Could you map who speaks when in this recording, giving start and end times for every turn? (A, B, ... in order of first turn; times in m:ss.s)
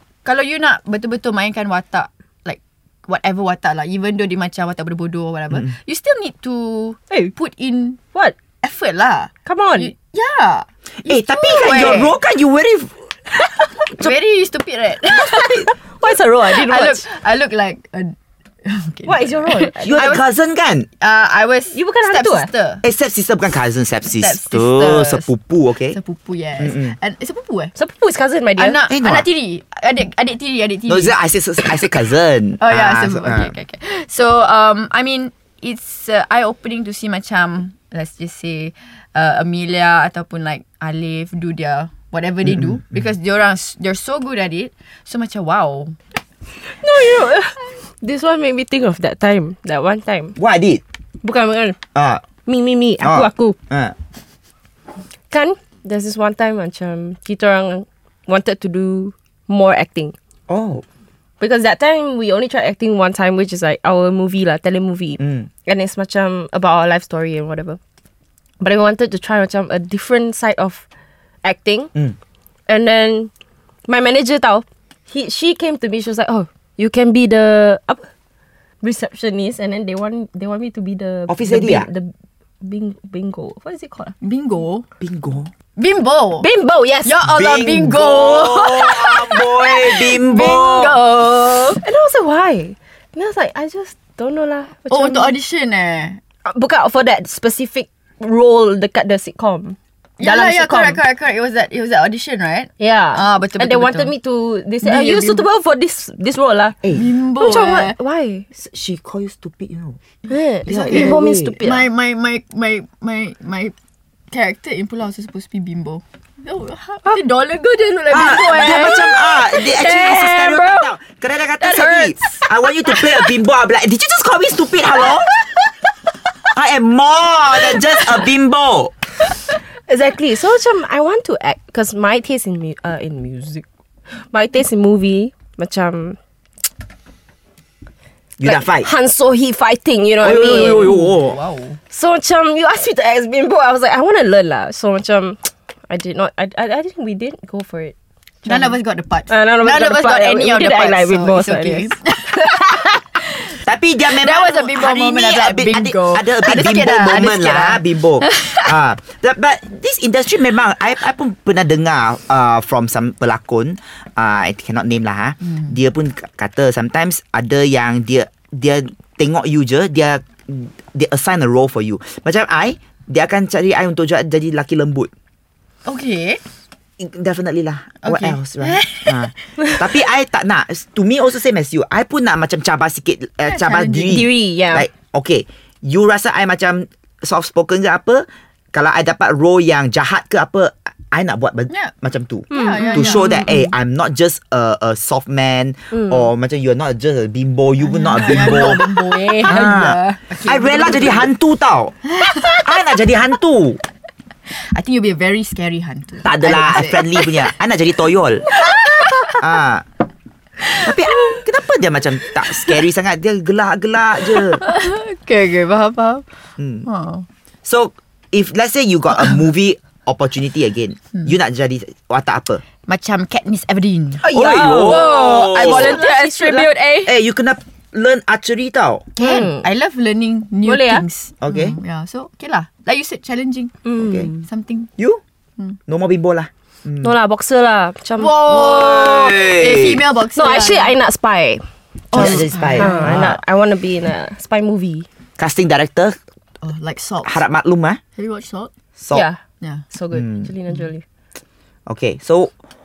0:00.2-0:08.0 A
0:08.6-0:12.1 A
0:09.4-0:09.9 B
0:11.0-0:13.1 C
0:13.9-0:15.7 A
0:15.2-0:17.0 B
0:16.5-0:20.2 A
0:19.0-0:20.1 B
0:19.8-0:20.9 C
0:21.0-0:22.8 A
0:21.7-0:22.5 B
0:22.8-0:26.0 C
0:24.2-0:25.3 A
0:25.9-0:27.7 A
0:26.6-0:26.9 C
0:27.8-0:28.8 B
0:28.6-0:31.1 A
0:28.9-0:29.2 C
0:30.9-0:33.5 C
0:32.6-0:46.0 A
0:42.4-0:42.8 C
0:46.7-0:50.4 B
0:50.4-0:50.8 C
0:51.2-0:51.8 B
0:51.9-0:52.2 C
0:52.4-0:53.6 B
0:53.0-0:53.9 C
0:55.3-1:00.1 B
1:00.5-1:00.8 C
1:01.4-1:07.8 B
1:05.2-1:05.5 C
1:08.6-1:10.8 B
1:11.4-1:11.9 B
1:12.7-1:13.3 B
1:13.9-1:18.1 B
1:18.8-1:24.1 B
1:21.3-1:21.9 C
1:24.2-1:24.8 A
1:25.0-1:25.5 C
1:25.8-1:26.5 A
1:26.4-1:27.1 B
1:27.0-1:31.8 A
1:27.2-1:31.0 C
1:31.7-1:35.3 B
1:34.9-1:36.2 A
1:36.4-1:41.0 B
1:40.2-1:44.1 A
1:42.8-1:46.8 B
1:44.8-1:45.4 A
1:46.9-1:48.0 A
1:47.4-1:48.5 B
1:48.5-1:50.0 C
1:50.3-1:51.9 B
1:50.6-1:53.7 A
1:50.7-1:51.6 C
1:54.3-1:59.1 A
1:57.0-2:00.8 B
1:58.1-2:05.3 C
2:01.6-2:02.2 B
2:01.7-2:02.2 A
2:06.5-2:08.9 C
2:09.9-2:13.6 B
2:14.3-2:16.2 B
2:18.4-2:18.9 C
2:18.4-2:20.9 B
2:20.2-2:21.4 C
2:20.2-2:21.8 A
2:21.9-2:28.8 B
2:28.4-2:33.5 A
2:29.3-2:32.8 B
2:33.6-2:55.1 C
2:34.2-2:38.7 A
2:45.4-2:45.7 A
2:55.8-2:56.4 A
2:57.0-3:18.8 C
2:58.0-2:59.3 A
3:03.4-3:04.3 A
3:04.1-3:04.9 B
3:12.5-3:13.5 A
3:12.5-3:13.6 B
3:15.9-3:16.3 B
3:17.8-3:21.3 A
3:18.2-3:19.6 B
3:19.4-3:23.8 C
3:22.0-3:22.6 A
3:24.7-3:27.5 A
3:26.2-3:28.5 C
3:28.5-3:29.4 A
3:29.3-3:29.8 C
3:30.6-3:31.4 A
3:30.8-3:34.6 C
3:32.5-3:32.8 A
3:34.4-3:36.2 A
3:36.6-3:36.9 C
3:36.8-3:37.2 A
3:37.6-3:42.6 C
3:42.8-3:47.1 A
3:44.2-3:46.7 B
3:44.3-3:46.0 C
3:47.0-3:49.0 C
3:49.2-3:53.8 A
3:49.2-3:49.6 B
3:50.6-3:51.0 B
3:51.4-3:51.8 C
3:53.8-3:54.4 B
3:54.4-3:54.9 A
3:55.9-3:57.1 C
3:57.0-3:59.1 B
3:58.2-4:00.9 A
3:58.4-4:00.0 C
4:00.3-4:05.1 B
4:02.1-4:03.4 C
4:02.1-4:03.2 A
4:05.4-4:06.2 C
4:06.6-4:07.4 A
4:07.2-4:08.0 C
4:08.1-4:08.7 A
4:09.0-4:09.2 C
4:09.1-4:09.4 B
4:09.9-4:11.0 B
4:10.1-4:10.5 C
4:11.9-4:12.5 C